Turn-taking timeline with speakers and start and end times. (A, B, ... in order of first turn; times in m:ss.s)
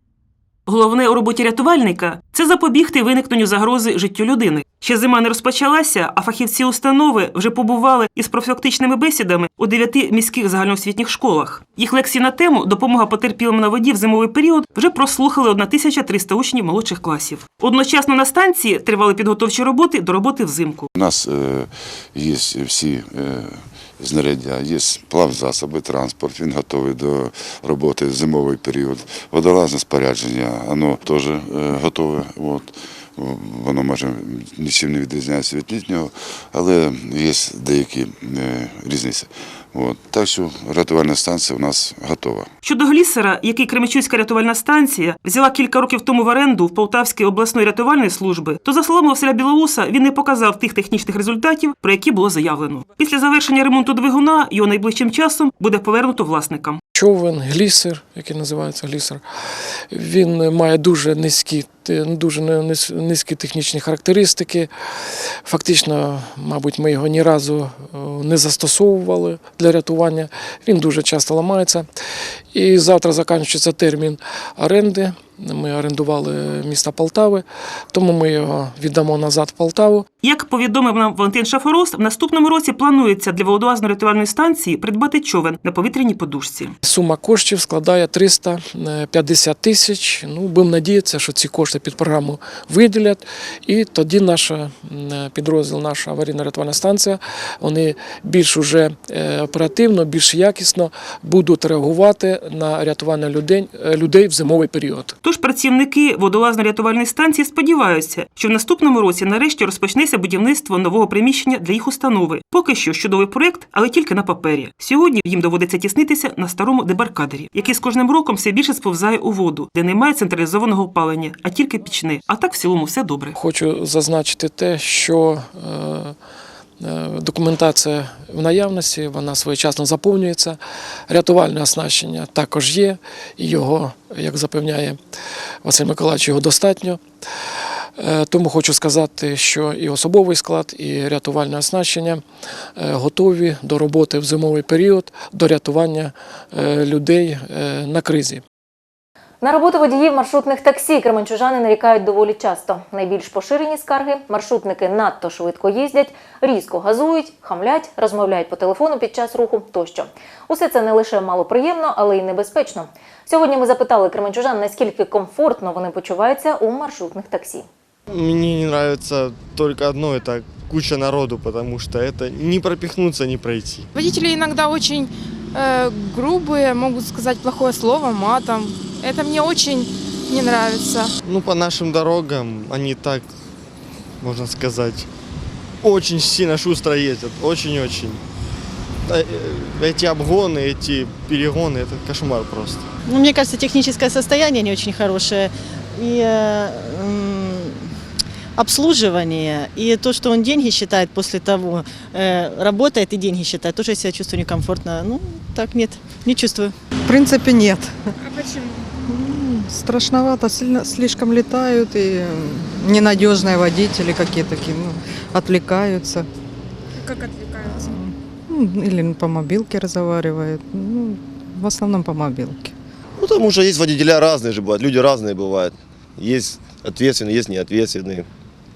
0:00.7-0:20.9 A
0:21.0-0:42.5 B
0:42.6-0:56.8 A
0:57.0-0:59.2 C
0:59.9-1:04.7 C
1:05.4-1:11.9 C
1:12.5-1:20.1 C
1:20.2-1:26.8 A
1:26.8-1:45.1 C
1:45.2-2:03.4 A
2:03.4-2:06.2 C
2:06.8-2:15.0 C
2:15.6-2:17.0 C
2:18.0-2:22.2 C
2:22.8-2:28.4 C
2:29.4-2:47.7 D
2:48.1-2:53.9 E
2:54.0-3:01.1 F
3:01.2-3:03.3 E
3:04.2-3:05.1 E
3:05.8-3:08.2 E
3:09.1-3:12.9 E
3:13.1-3:17.9 G
3:18.6-3:26.7 G
3:27.1-3:27.9 H
3:28.3-3:28.6 F
3:29.1-3:36.2 H
3:37.0-3:37.7 F
3:37.8-3:42.7 H
3:43.2-3:48.3 I